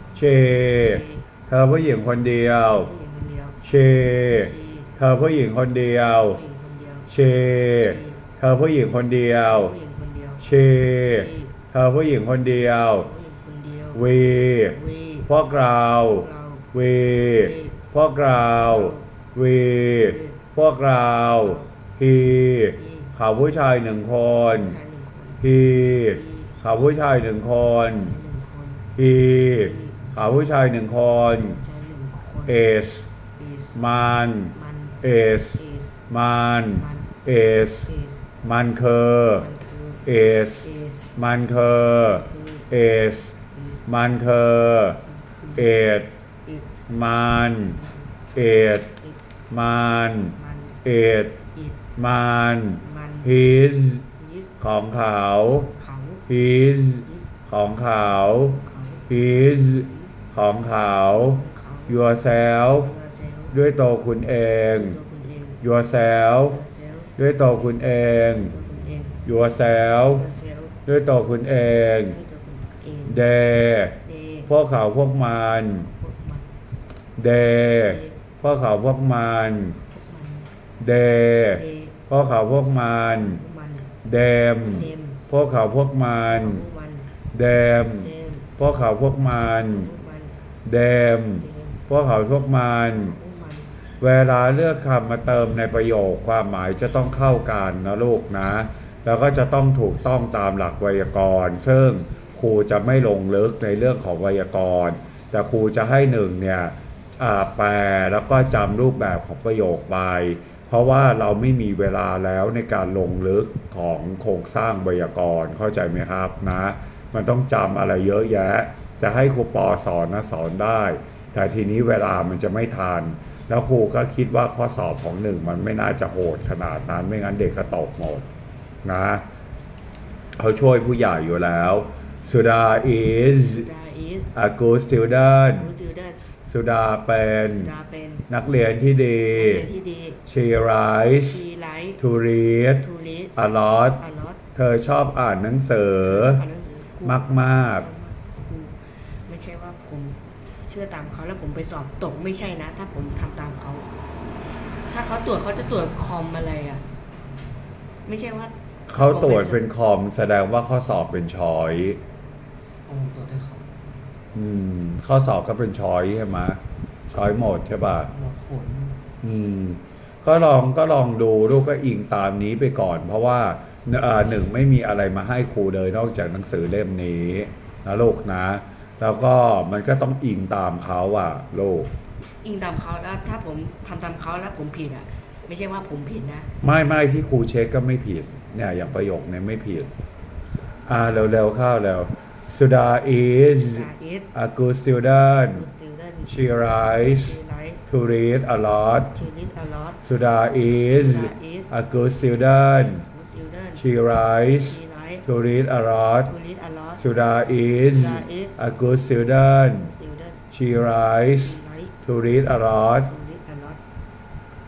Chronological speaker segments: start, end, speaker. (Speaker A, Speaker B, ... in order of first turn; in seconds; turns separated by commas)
Speaker A: 0.1-2.9, Speaker B: 0.8-1.3, Speaker B: 2.6-3.6, Speaker A: 3.6-6.4, Speaker B: 4.3-5.0, Speaker B: 5.7-7.1, Speaker A: 7.1-9.7, Speaker B: 7.8-8.3, Speaker B: 9.4-10.5, Speaker A: 10.4-13.1, Speaker B: 11.0-11.6, Speaker B: 12.9-15.3, Speaker A: 13.9-24.8, Speaker B: 16.0-16.7, Speaker B: 17.3-17.8, Speaker B: 18.5-19.1, Speaker B: 19.9-20.5, Speaker B: 21.1-21.7, Speaker B: 22.7-23.1, Speaker B: 24.4-26.6, Speaker A: 25.4-28.1, Speaker B: 27.8-28.9, Speaker A: 29.0-31.6, Speaker B: 29.5-30.1, Speaker B: 31.3-32.6, Speaker A: 32.5-33.1, Speaker B: 33.4-33.8, Speaker A: 33.8-37.9, Speaker B: 34.5-35.0, Speaker B: 35.5-36.0, Speaker B: 36.7-37.2, Speaker B: 37.9-38.3, Speaker A: 38.4-39.5, Speaker B: 39.3-41.2, Speaker A: 40.1-43.4, Speaker B: 41.9-42.7, Speaker B: 43.5-43.8, Speaker A: 43.9-45.0, Speaker B: 45.1-45.7, Speaker A: 45.6-46.1, Speaker B: 46.5-46.8, Speaker A: 46.9-47.8, Speaker B: 47.8-48.1, Speaker A: 48.4-49.0, Speaker A: 49.5-51.4, Speaker B: 50.4-50.8, Speaker B: 51.5-51.8, Speaker A: 52.0-54.1, Speaker B: 52.8-53.4, Speaker B: 54.2-54.9, Speaker A: 54.6-55.7, Speaker B: 55.4-56.3, Speaker A: 56.3-62.9, Speaker B: 58.5-59.1, Speaker B: 60.9-62.1, Speaker B: 62.7-63.6, Speaker A: 63.5-65.0, Speaker B: 64.7-65.7, Speaker A: 65.6-66.6, Speaker B: 66.4-69.2, Speaker A: 67.2-68.5, Speaker A: 69.2-70.3, Speaker B: 70.0-70.8, Speaker A: 70.9-72.2, Speaker B: 72.1-73.2, Speaker A: 73.1-75.9, Speaker B: 74.0-74.5, Speaker B: 75.7-76.5, Speaker A: 77.2-79.8, Speaker B: 77.8-78.2, Speaker B: 79.8-80.5, Speaker A: 80.8-83.4, Speaker B: 81.5-82.1, Speaker B: 83.2-83.9, Speaker A: 84.0-86.6, Speaker B: 84.7-85.2, Speaker B: 86.3-87.1, Speaker A: 87.3-89.9, Speaker B: 87.8-88.5, Speaker B: 89.3-90.4, Speaker A: 90.7-93.2, Speaker B: 91.4-91.8, Speaker B: 92.8-93.7, Speaker A: 94.0-128.3, Speaker B: 102.0-102.4, Speaker A: 128.8-129.2, Speaker A: 130.4-133.7, Speaker B: 133.3-134.3, Speaker A: 134.3-135.7, Speaker B: 135.4-136.2, Speaker A: 136.5-137.7, Speaker B: 137.4-138.3, Speaker A: 138.3-139.7, Speaker B: 139.3-140.2, Speaker A: 140.2-141.4, Speaker B: 141.3-142.0, Speaker A: 142.0-144.0, Speaker B: 142.8-143.3, Speaker B: 144.0-144.4, Speaker A: 144.6-146.4, Speaker B: 146.0-153.9, Speaker A: 147.0-147.8, Speaker B: 154.9-156.9, Speaker B: 158.1-159.6, Speaker A: 158.9-162.0, Speaker B: 162.9-163.7, Speaker A: 164.3-168.1, Speaker B: 168.1-169.0, Speaker A: 169.2-181.9, Speaker B: 182.4-186.5, Speaker A: 186.6-189.9, Speaker A: 190.9-195.7, Speaker B: 193.6-194.3, Speaker B: 195.5-197.8, Speaker A: 196.3-199.2, Speaker B: 199.1-200.0, Speaker A: 200.0-203.1, Speaker B: 200.9-201.7, Speaker B: 202.8-203.8, Speaker A: 203.8-206.3, Speaker B: 204.6-205.2, Speaker B: 206.3-207.0, Speaker A: 207.0-209.9, Speaker B: 207.9-208.6, Speaker B: 209.7-210.5, Speaker A: 210.5-213.1, Speaker B: 211.3-212.0, Speaker B: 213.0-213.8